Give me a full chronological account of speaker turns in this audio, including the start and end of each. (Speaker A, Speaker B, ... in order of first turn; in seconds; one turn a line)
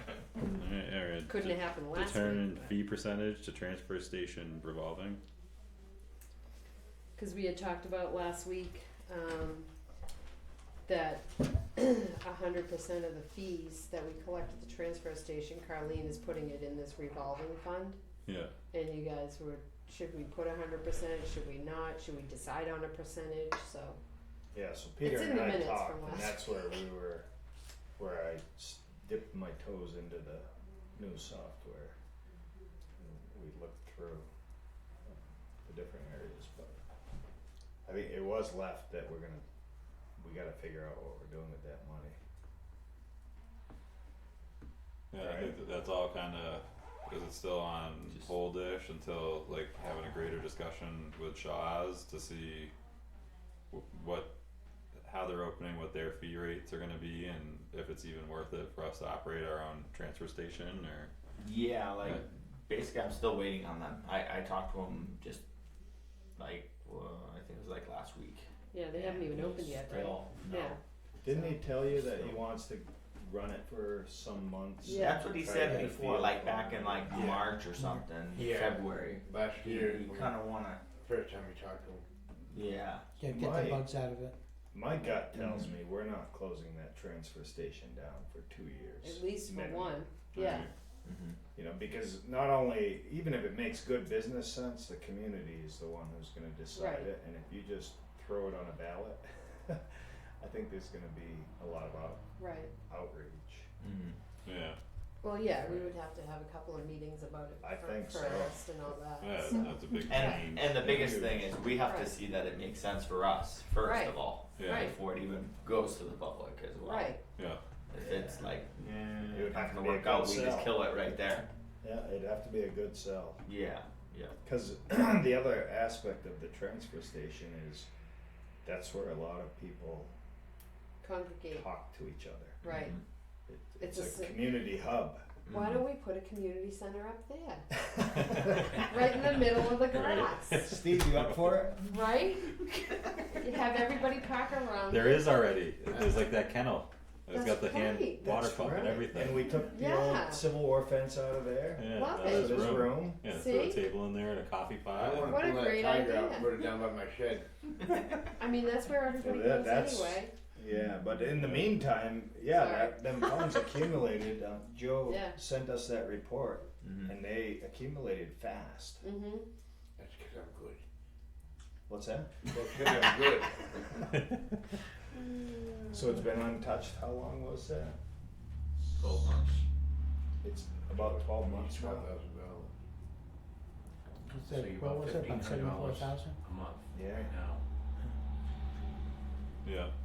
Speaker A: 0.5-5.2
Speaker B: 1.3-2.7
Speaker B: 7.2-9.7
Speaker B: 10.8-18.0
Speaker A: 18.2-18.5
Speaker B: 18.7-24.0
Speaker C: 24.5-27.2
Speaker B: 25.0-26.6
Speaker C: 28.0-31.9
Speaker C: 33.0-34.3
Speaker C: 35.0-36.8
Speaker C: 37.9-39.4
Speaker C: 40.2-42.1
Speaker A: 45.1-52.7
Speaker C: 45.2-45.5
Speaker A: 53.7-54.3
Speaker A: 55.0-61.1
Speaker D: 61.4-65.4
Speaker D: 66.4-70.8
Speaker B: 68.7-71.6
Speaker C: 71.2-77.4
Speaker D: 74.8-80.8
Speaker B: 74.8-75.2
Speaker E: 75.6-76.0
Speaker F: 78.3-82.0
Speaker D: 82.5-83.1
Speaker E: 83.2-84.3
Speaker C: 83.2-83.9
Speaker C: 84.7-90.6
Speaker D: 85.3-85.7
Speaker B: 89.0-90.7
Speaker A: 90.3-90.7
Speaker D: 91.0-91.4
Speaker C: 91.5-99.8
Speaker B: 96.7-97.1
Speaker C: 100.4-102.2
Speaker B: 102.4-102.7
Speaker C: 102.9-103.7
Speaker D: 103.8-104.2
Speaker A: 104.4-104.8
Speaker B: 105.2-110.5
Speaker C: 107.6-108.9
Speaker A: 109.2-110.8
Speaker D: 110.1-117.2
Speaker C: 110.7-111.5
Speaker B: 111.8-112.1
Speaker B: 113.8-115.0
Speaker A: 114.5-114.9
Speaker B: 116.8-117.2
Speaker D: 117.9-121.5
Speaker C: 118.0-118.5
Speaker C: 119.3-120.8
Speaker C: 121.8-123.4
Speaker D: 123.4-124.4
Speaker C: 124.4-127.9
Speaker C: 128.6-130.2
Speaker B: 131.0-131.7
Speaker C: 131.5-132.8
Speaker B: 132.6-132.9
Speaker D: 132.6-133.0
Speaker C: 133.5-135.3
Speaker B: 133.8-134.5
Speaker D: 135.5-135.8
Speaker B: 135.5-137.7
Speaker A: 138.1-141.6
Speaker B: 138.7-140.7
Speaker C: 140.6-141.8
Speaker B: 141.9-142.5
Speaker B: 143.4-145.3
Speaker A: 144.9-149.5
Speaker F: 145.9-146.2
Speaker B: 147.3-148.3
Speaker C: 148.2-153.2
Speaker B: 149.7-150.5
Speaker A: 151.8-155.5
Speaker B: 151.9-153.8
Speaker F: 154.9-157.5
Speaker B: 155.2-156.5
Speaker B: 158.4-160.3
Speaker C: 159.2-169.0
Speaker A: 161.3-161.8
Speaker B: 162.5-163.5
Speaker B: 165.1-165.4
Speaker D: 166.8-167.1
Speaker B: 169.0-169.5
Speaker F: 170.0-170.8
Speaker C: 171.9-172.3
Speaker F: 172.5-173.9
Speaker C: 175.9-178.0
Speaker F: 178.9-179.6
Speaker C: 180.4-182.1
Speaker F: 180.9-182.8
Speaker E: 184.3-186.4
Speaker F: 184.4-187.6
Speaker C: 186.9-187.3
Speaker A: 189.6-189.9